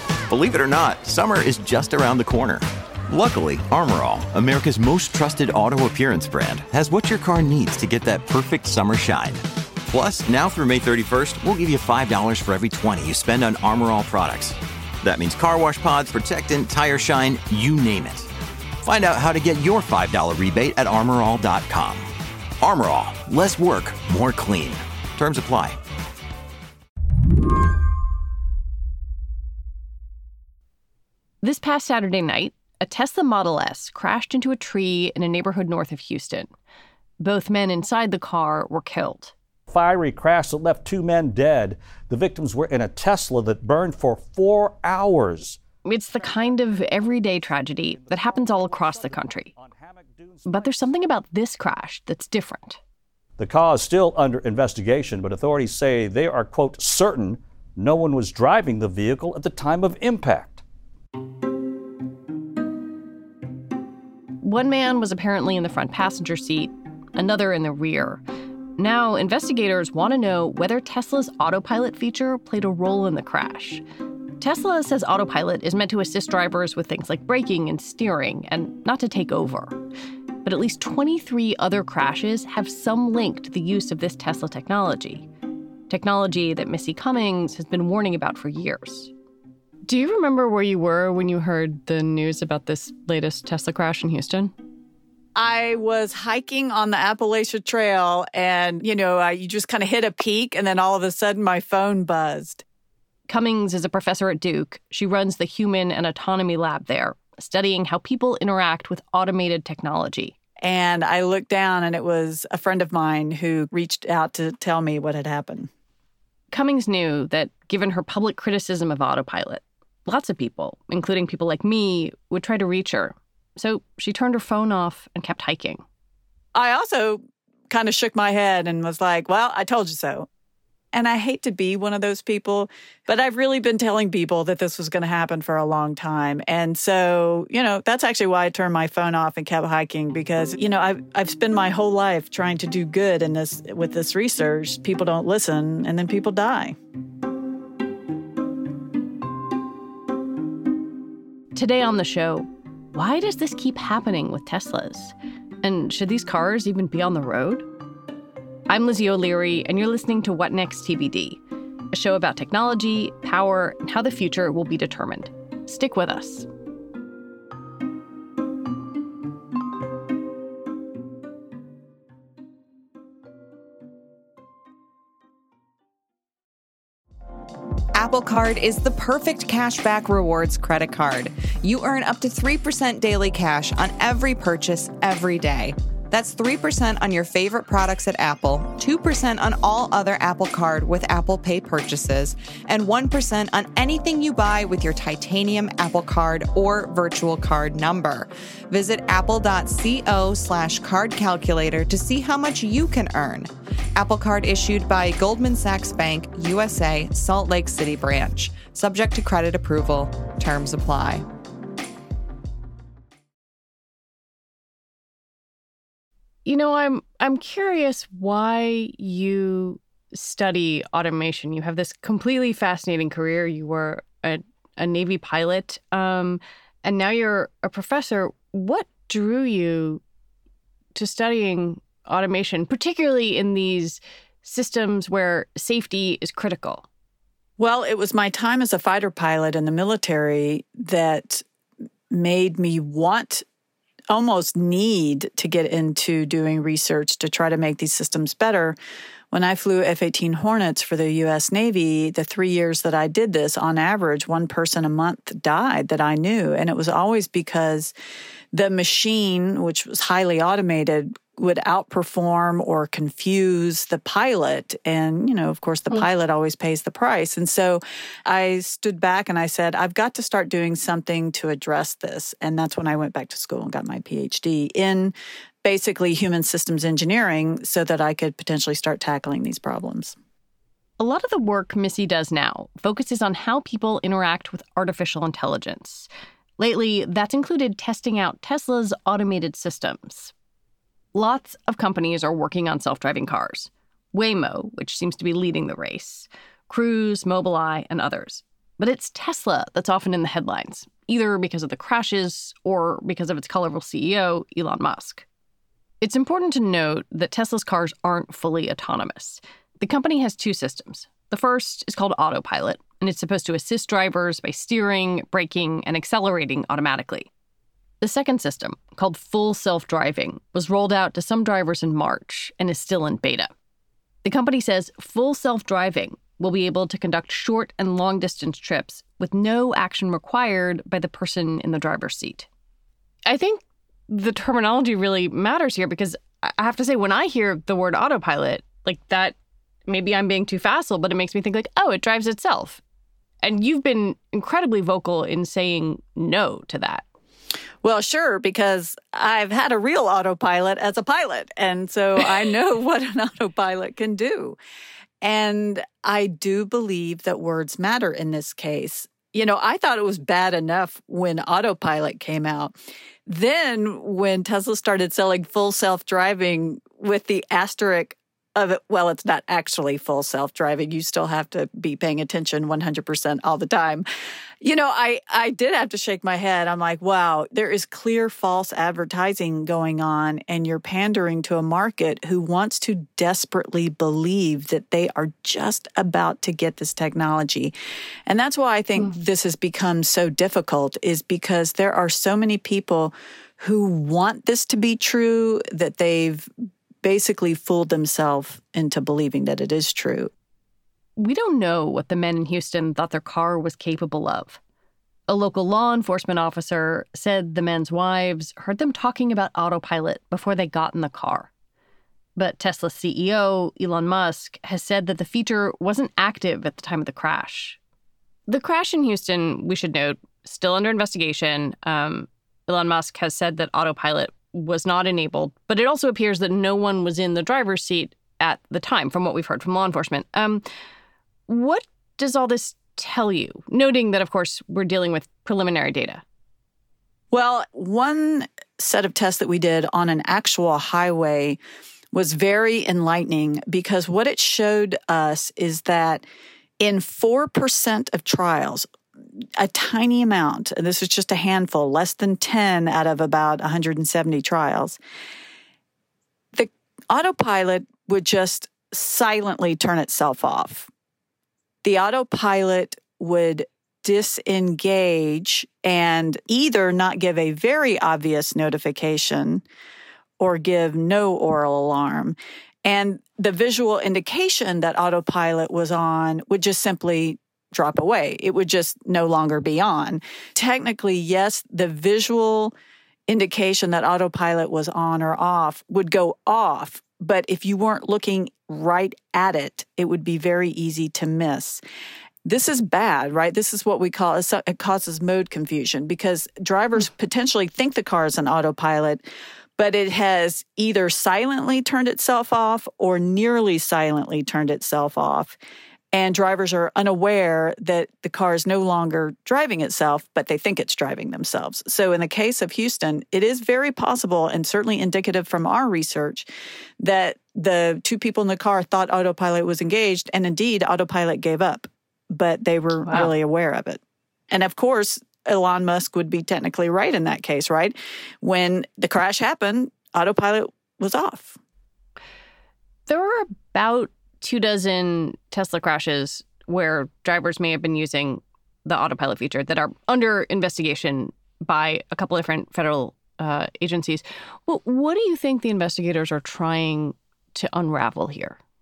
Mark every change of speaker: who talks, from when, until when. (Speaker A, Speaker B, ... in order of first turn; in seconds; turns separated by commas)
Speaker A: 0.3-18.3, Speaker A: 18.8-22.1, Speaker A: 22.6-25.8, Speaker B: 31.4-36.5, Speaker B: 37.2-39.3, Speaker C: 39.7-51.0, Speaker B: 45.9-49.5, Speaker B: 50.5-52.8, Speaker C: 53.4-60.6, Speaker B: 64.4-68.2, Speaker B: 68.8-73.8, Speaker B: 74.4-79.8, Speaker B: 80.5-85.3, Speaker B: 85.9-89.1, Speaker B: 89.8-94.5, Speaker D: 95.4-102.6, Speaker B: 103.3-110.4, Speaker D: 110.6-115.7, Speaker B: 116.5-125.8, Speaker D: 126.5-130.3, Speaker D: 130.9-146.8, Speaker B: 151.6-157.7, Speaker B: 158.7-161.4, Speaker B: 161.9-166.5, Speaker E: 177.9-211.3, Speaker B: 216.5-230.0, Speaker B: 230.9-236.9, Speaker D: 237.6-241.4, Speaker D: 242.1-243.4, Speaker D: 244.1-248.8, Speaker D: 249.3-257.9, Speaker D: 258.5-280.2, Speaker B: 281.0-286.1, Speaker B: 286.6-290.3, Speaker B: 291.1-305.2, Speaker B: 306.0-317.3, Speaker B: 318.0-323.5, Speaker B: 324.2-332.5, Speaker B: 333.3-339.4, Speaker B: 339.9-342.8, Speaker B: 343.4-347.0, Speaker D: 347.8-354.6, Speaker D: 355.2-374.0, Speaker D: 374.6-387.7, Speaker D: 388.3-396.5, Speaker D: 397.0-400.3, Speaker B: 401.2-404.6, Speaker B: 405.3-411.5, Speaker B: 412.4-417.8, Speaker B: 418.5-430.6, Speaker B: 431.5-436.2, Speaker D: 437.3-441.6, Speaker D: 442.1-446.2, Speaker D: 446.8-448.9, Speaker D: 449.6-455.0, Speaker D: 456.5-460.9, Speaker D: 461.8-469.6, Speaker D: 470.4-482.8, Speaker D: 483.3-491.8, Speaker D: 492.4-499.2, Speaker D: 499.8-505.6, Speaker D: 506.1-516.5, Speaker D: 517.0-524.0, Speaker D: 524.5-531.6, Speaker B: 533.1-548.6